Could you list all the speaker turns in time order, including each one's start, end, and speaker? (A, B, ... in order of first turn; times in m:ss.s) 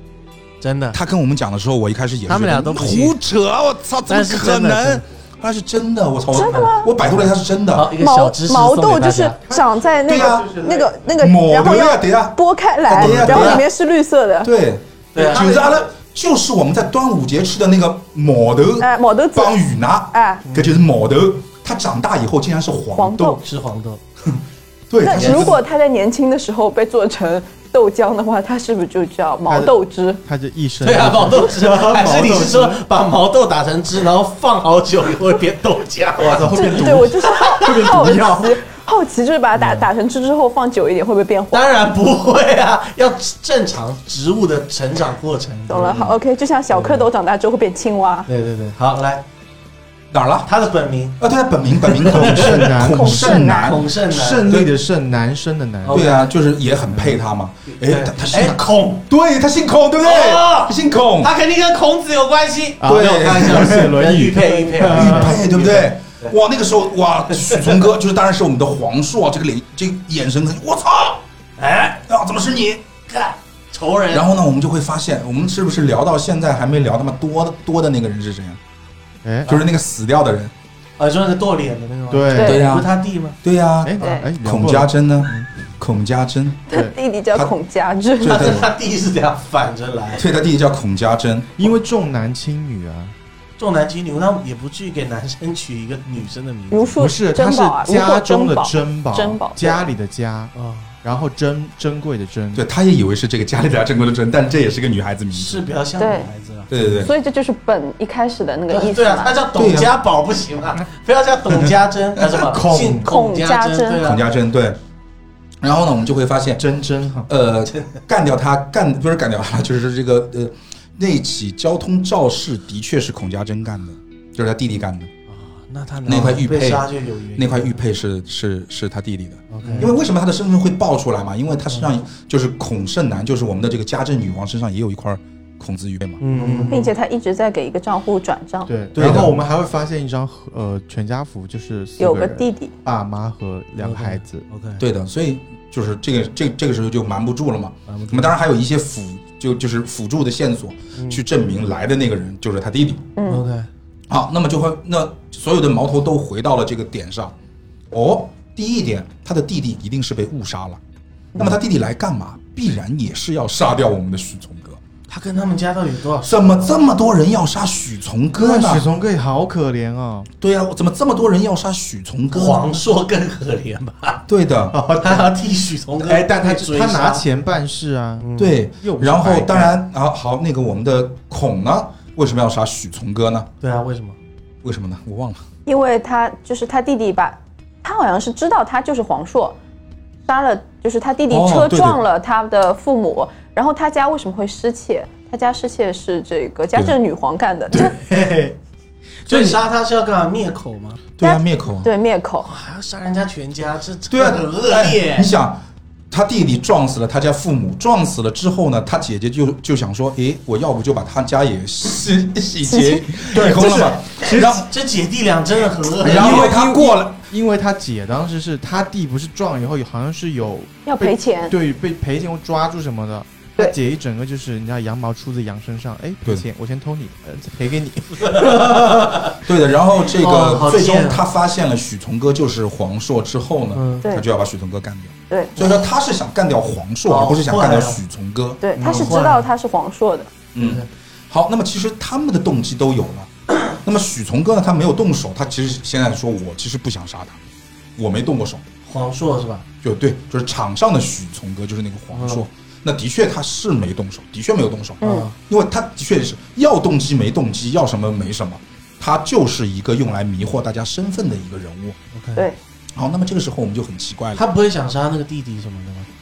0:00.6-0:01.0 A
0:00.9-0:07.9 B
0:02.3-0:03.2 A
0:04.1-0:05.0 A
0:06.3-0:06.9 C
0:07.0-0:09.4 A
0:07.9-0:14.5 C
0:09.5-0:11.2 D
0:10.0-0:10.5 B
0:11.2-0:13.7 B
0:13.0-0:13.6 A
0:14.4-0:23.4 B
0:15.1-0:15.7 A
0:18.8-0:19.6 C
0:20.1-0:20.5 C
0:23.0-0:23.4 C
0:23.4-0:24.0 A
0:24.9-0:25.6 B
0:25.0-0:30.2 C
0:25.1-0:25.5 A
0:29.5-0:32.8 D
0:30.8-0:37.8 A
0:36.2-0:38.6 D
0:36.5-0:41.7 C
0:39.6-0:39.9 A
0:41.5-0:46.2 A
0:45.7-0:48.3 C
0:46.7-0:47.1 A
0:48.3-0:49.2 A
0:50.1-0:50.5 B
0:50.4-0:51.2 A
0:51.2-0:53.9 B
0:51.8-0:52.7 A
0:52.0-0:53.6 D
0:52.8-0:53.8 C
0:53.5-0:54.5 A
0:54.1-0:56.0 D
0:54.4-0:54.7 B
0:55.8-0:56.3 A
0:55.9-1:01.3 B
0:57.7-0:59.0 A
1:00.0-1:06.3 A
1:02.8-1:05.4 D
1:02.8-1:03.9 B
1:04.8-1:11.2 B
1:11.6-1:12.0 A
1:12.1-1:12.8 B
1:13.1-1:14.3 A
1:14.1-1:18.6 B
1:19.2-1:19.5 D
1:19.5-1:20.5 B
1:21.0-1:23.4 A
1:22.1-1:22.6 D
1:22.3-1:22.7 C
1:22.4-1:22.9 B
1:23.4-1:26.7 B
1:23.8-1:25.5 D
1:24.0-1:24.3 C
1:26.7-1:28.6 C
1:26.7-1:27.0 D
1:28.2-1:28.7 B
1:28.2-1:30.2 A
1:30.2-1:31.5 B
1:31.6-1:33.1 D
1:33.6-1:37.0 A
1:36.7-1:39.8 C
1:37.0-1:40.5 D
1:40.5-1:40.9 A
1:41.0-1:42.6 D
1:42.5-1:45.6 B
1:45.3-1:46.7 A
1:46.0-1:46.3 C
1:46.7-1:47.1 B
1:46.9-1:49.3 C
1:48.7-1:54.2 A
1:49.6-1:49.9 B
1:52.3-1:53.1 D
1:53.0-1:54.0 C
1:54.0-1:54.8 B
1:55.6-1:56.7 B
1:56.6-1:57.3 D
1:57.3-2:05.1 B
2:05.3-2:07.8 A
2:06.0-2:16.2 B
2:09.5-2:09.9 A
2:09.6-2:09.9 D
2:16.2-2:16.9 A
2:16.3-2:16.8 D
2:16.7-2:18.7 C
2:18.7-2:24.4 D
2:18.9-2:19.4 B
2:22.0-2:22.7 C
2:23.8-2:24.8 A
2:24.8-2:33.1 B
2:27.9-2:28.3 A
2:31.0-2:31.2 A
2:33.2-2:33.4 C
2:33.2-2:33.7 A
2:34.1-2:37.3 B
2:37.9-2:40.8 B
2:41.4-2:44.8 B
2:45.1-2:46.8 A
2:46.3-2:48.8 B
2:48.4-2:50.3 D
2:50.4-2:52.7 B
2:52.3-2:54.2 A
2:54.3-2:54.8 B
2:54.7-2:55.3 D
2:55.0-2:57.2 A
2:56.0-2:58.3 D
2:58.2-2:58.6 A
2:58.4-3:03.5 B
2:58.8-2:59.8 D
3:03.6-3:04.2 A
3:04.6-3:05.4 B
3:05.6-3:09.6 C
3:10.3-3:18.0 C
3:11.3-3:12.0 B
3:17.7-3:18.5 D
3:19.2-3:21.0 A
3:19.3-3:19.6 D
3:21.2-3:21.9 B
3:21.2-3:22.5 C
3:22.4-3:25.3 A
3:24.1-3:34.7 B
3:32.6-3:33.0 C
3:33.3-3:34.6 D
3:34.3-3:36.5 A
3:36.0-3:37.2 B
3:36.0-3:49.0 D
3:40.8-3:41.5 C
3:48.2-3:49.4 A
3:49.4-3:58.6 B
3:50.1-3:51.2 A
3:53.7-3:54.1 A
3:55.3-3:55.6 C
3:57.1-3:58.0 A
3:58.6-4:00.3 C
3:58.8-3:59.2 D
3:58.8-3:59.5 A
4:00.5-4:07.4 B
4:00.6-4:00.8 A
4:08.0-4:08.6 B
4:08.8-4:09.6 A
4:09.8-4:22.0 B
4:12.1-4:12.4 A
4:15.0-4:15.3 C
4:15.0-4:15.3 A
4:22.1-4:22.5 A
4:23.0-4:24.4 B
4:24.3-4:26.1 A